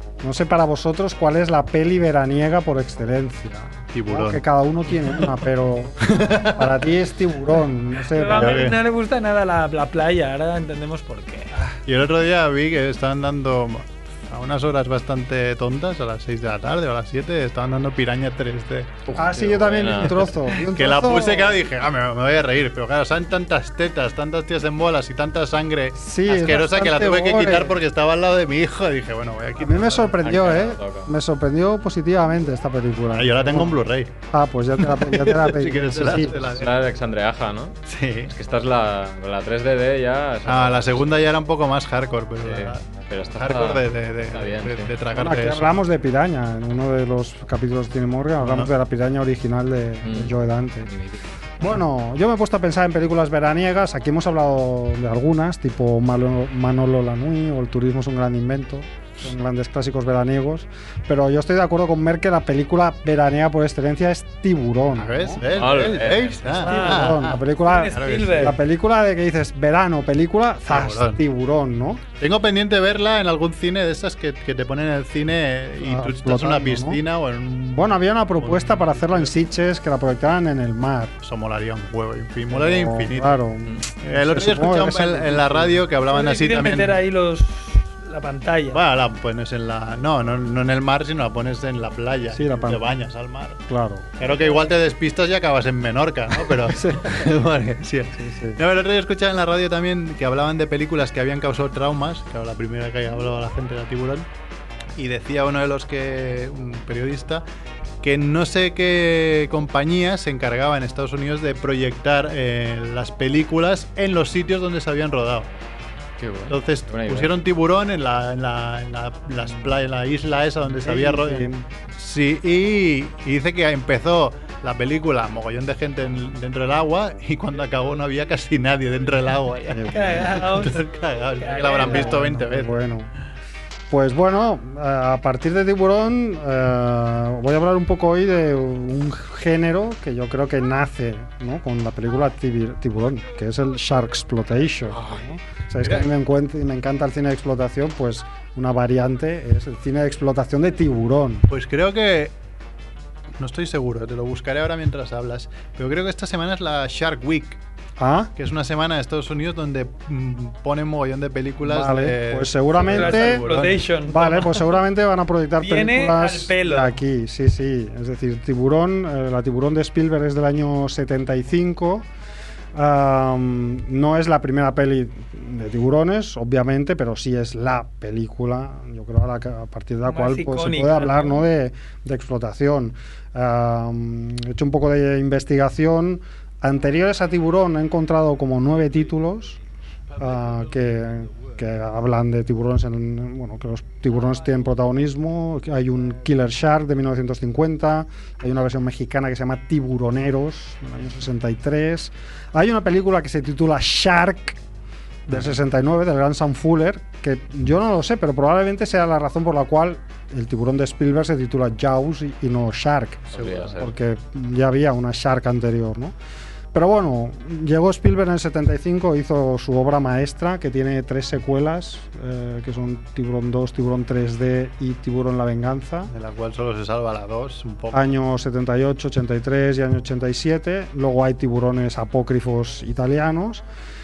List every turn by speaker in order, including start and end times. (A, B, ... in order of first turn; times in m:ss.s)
0:00.2-0:08.7 A
0:03.9-0:04.4 B
0:06.0-0:06.8 B
0:08.1-0:11.5 C
0:08.3-0:08.8 B
0:11.6-0:18.9 B
0:19.1-0:20.3 D
0:19.2-0:21.6 A
0:20.6-0:30.1 B
0:26.0-0:27.8 A
0:29.6-0:36.4 A
0:30.2-0:31.1 D
0:33.1-0:34.1 B
0:34.8-0:36.8 B
0:36.4-0:37.8 D
0:37.9-0:38.3 B
0:38.3-0:41.1 D
0:40.5-0:45.7 B
0:42.4-0:44.9 D
0:45.1-0:50.9 A
0:48.4-0:48.7 B
0:50.0-0:51.2 D
0:51.6-1:05.5 A
1:05.0-1:08.5 B
1:05.5-1:06.4 D
1:06.5-1:08.6 C
1:06.5-1:12.0 A
1:10.7-1:11.2 B
1:12.2-1:19.3 B
1:15.8-1:17.0 A
1:17.7-1:21.1 A
1:21.2-1:23.4 B
1:22.5-1:25.8 A
1:24.0-1:27.0 B
1:26.1-1:28.8 C
1:28.7-1:33.6 B
1:32.3-1:32.9 A
1:33.7-1:34.6 A
1:34.2-1:44.3 B
1:36.6-1:37.3 A
1:38.2-1:38.6 A
1:45.0-1:47.4 B
1:48.0-1:55.5 B
1:56.2-1:57.3 D
1:56.5-2:12.8 B
2:00.8-2:01.7 A
2:09.7-2:10.4 A
2:09.9-2:10.9 C
2:11.4-2:12.3 C
2:11.6-2:13.1 A
2:13.9-2:31.5 A
2:24.9-2:26.1 B
2:31.5-2:32.3 B
2:33.4-2:37.6 B
2:38.0-2:38.3 A
2:38.4-2:43.9 B
2:41.6-2:43.5 A
2:42.8-2:44.6 C
2:44.1-2:52.1 A
2:45.6-2:47.0 C
2:52.7-3:09.6 A
3:00.1-3:01.4 C
3:10.2-3:24.6 A
3:25.3-3:36.2 A
3:33.3-3:33.9 D
3:33.4-3:33.7 B
3:36.7-3:46.1 A
3:46.1-3:48.1 B
3:47.9-3:53.6 A